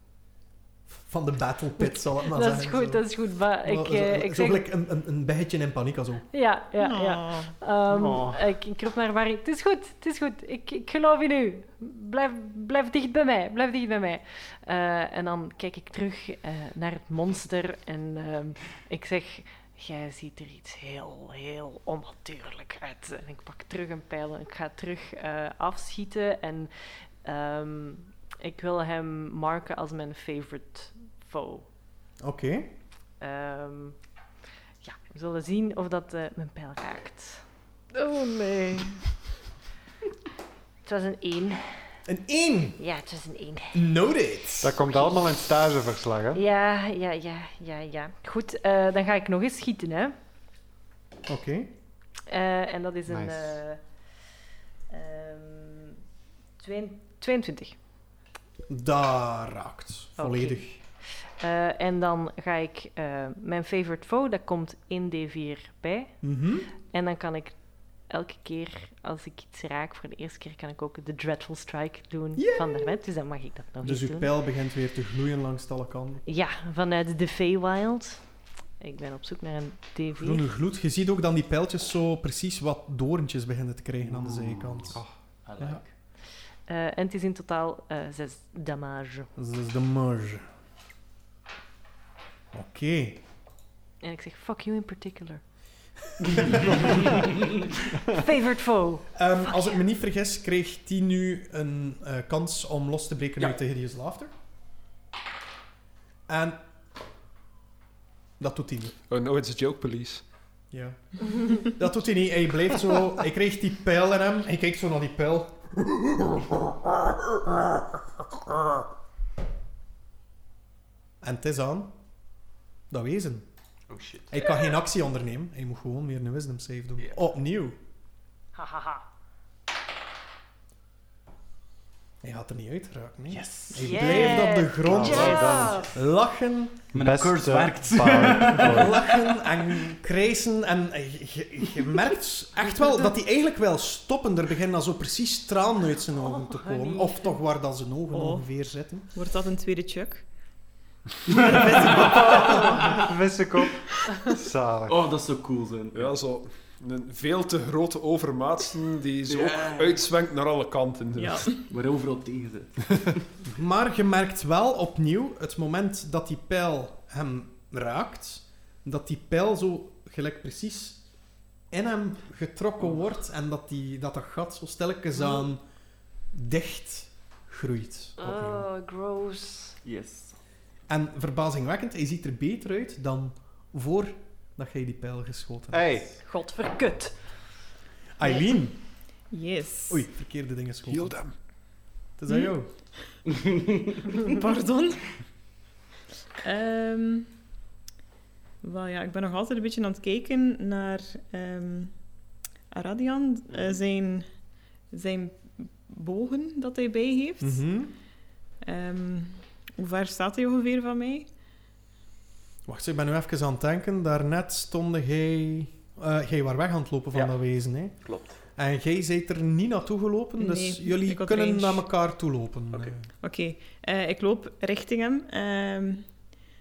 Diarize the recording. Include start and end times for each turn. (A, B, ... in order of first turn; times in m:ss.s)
0:00.9-0:03.1 A
0:01.8-0:04.6 B
0:03.6-0:06.3 A
0:06.3-0:26.7 B
0:06.8-0:07.5 C
0:07.9-0:08.4 D
0:27.2-0:31.7 B
0:32.2-0:32.7 A
0:33.2-0:34.0 B
0:34.8-0:39.1 B
0:40.8-0:41.8 B
0:42.1-0:42.8 A
0:42.8-0:43.8 B
0:43.7-0:44.8 A
0:44.6-0:46.4 D
0:46.3-0:50.1 B
0:51.3-0:51.7 A
0:52.3-0:53.8 B
0:53.1-0:53.6 D
0:54.9-0:56.0 B
0:56.6-0:57.8 B
0:58.7-1:00.8 A
1:00.2-1:00.6 B
1:01.2-1:06.2 B
1:06.2-1:06.7 A
1:06.8-1:14.3 B
1:12.4-1:12.9 A
1:13.8-1:16.2 A
1:16.2-1:18.2 B
1:18.8-1:20.5 B
1:20.2-1:25.0 A
1:24.9-1:25.9 E
1:26.7-1:29.3 B
1:29.4-1:30.4 A
1:32.5-1:33.2 A
1:34.0-1:35.4 B
1:37.9-1:39.8 B
1:39.1-1:44.3 A
1:46.3-1:46.6 A
1:48.4-1:49.0 A
1:49.1-1:50.2 F
1:50.7-1:56.6 A
2:01.2-2:01.9 A
2:02.9-2:03.4 A
2:03.9-2:04.5 E
2:04.3-2:07.8 A
2:08.6-2:09.0 B
2:12.2-2:16.9 A
2:13.3-2:14.3 E
2:13.7-2:15.9 B
2:14.8-2:15.9 D
2:16.9-2:19.4 E
2:16.9-2:19.0 D
2:18.6-2:29.1 A
2:26.2-2:27.3 B
2:28.1-2:28.4 C
2:29.1-2:30.2 C
2:31.3-2:32.4 E
2:31.4-2:32.7 C
2:31.7-2:32.8 A
2:32.4-2:35.0 D
2:34.9-2:36.1 E
2:35.9-2:41.4 F
2:39.3-2:40.0 E
2:41.2-2:41.6 C
2:41.7-2:43.3 E
2:43.5-2:51.0 A
2:51.7-2:55.6 A
2:56.3-2:58.6 A
2:58.2-2:59.8 B
2:59.8-3:00.4 E
3:00.9-3:06.0 A
3:05.7-3:06.1 D
3:06.2-3:07.2 B
3:08.2-3:08.8 A
3:09.3-3:10.0 C
3:09.9-3:11.2 A
3:10.9-3:11.3 F
3:12.2-3:12.7 A
3:13.4-3:13.7 E
3:14.1-3:15.1 C
3:16.4-3:17.3 C
3:18.6-3:21.9 C
3:22.7-3:24.3 C
3:24.9-3:27.6 C
3:27.4-3:27.9 A
3:28.6-3:31.3 C
3:32.6-3:43.1 A
3:38.0-3:38.4 E
3:40.4-3:41.8 C
3:43.2-3:46.1 C